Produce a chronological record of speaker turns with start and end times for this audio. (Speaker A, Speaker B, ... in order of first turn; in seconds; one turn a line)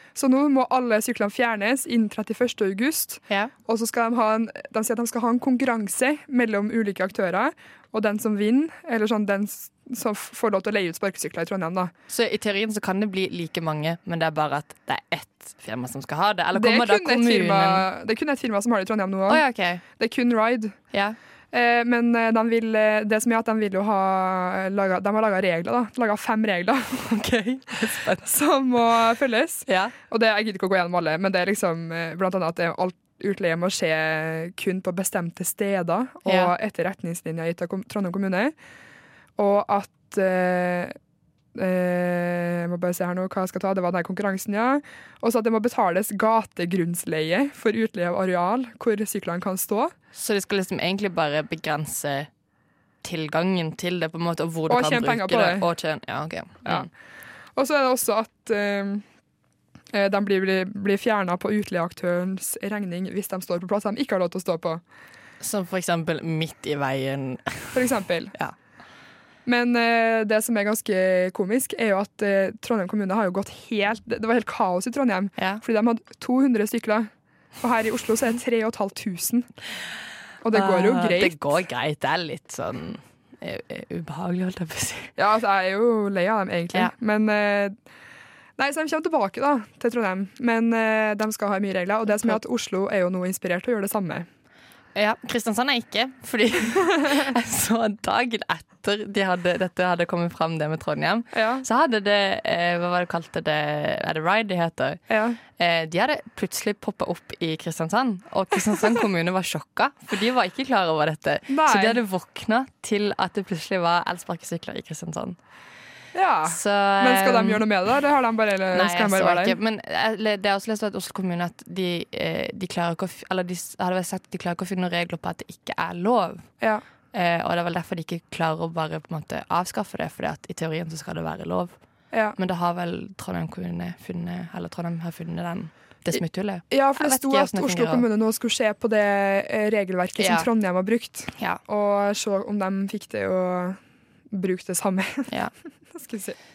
Speaker A: 0.1-11.9
Speaker B: 12.1-17.9
Speaker A: 16.5-20.8
Speaker B: 19.3-19.8
Speaker B: 20.9-21.2
Speaker A: 21.5-27.1
Speaker B: 27.0-28.3
Speaker A: 28.2-38.5
Speaker B: 29.7-29.9
Speaker B: 36.2-36.5
Speaker A: 39.4-40.9
Speaker A: 41.5-49.9
Speaker B: 50.1-52.3
Speaker B: 53.0-56.9
Speaker A: 54.7-55.6
Speaker A: 57.5-59.0
Speaker A: 59.9-64.8
Speaker B: 65.4-68.5
Speaker A: 67.7-68.3
Speaker A: 69.4-79.5
Speaker B: 75.4-75.6
Speaker A: 80.4-81.4
Speaker B: 80.5-85.1
Speaker A: 85.2-87.8
Speaker A: 88.6-94.3
Speaker B: 92.1-92.4
Speaker B: 94.9-105.0
Speaker A: 101.3-101.6
Speaker A: 105.1-105.4
Speaker B: 105.6-115.4
Speaker A: 111.5-112.0
Speaker A: 116.1-119.6
Speaker B: 116.5-117.6
Speaker B: 118.7-126.5
Speaker B: 127.1-131.7
Speaker B: 132.3-138.0
Speaker A: 136.1-145.3
Speaker B: 140.2-140.5
Speaker A: 145.9-146.4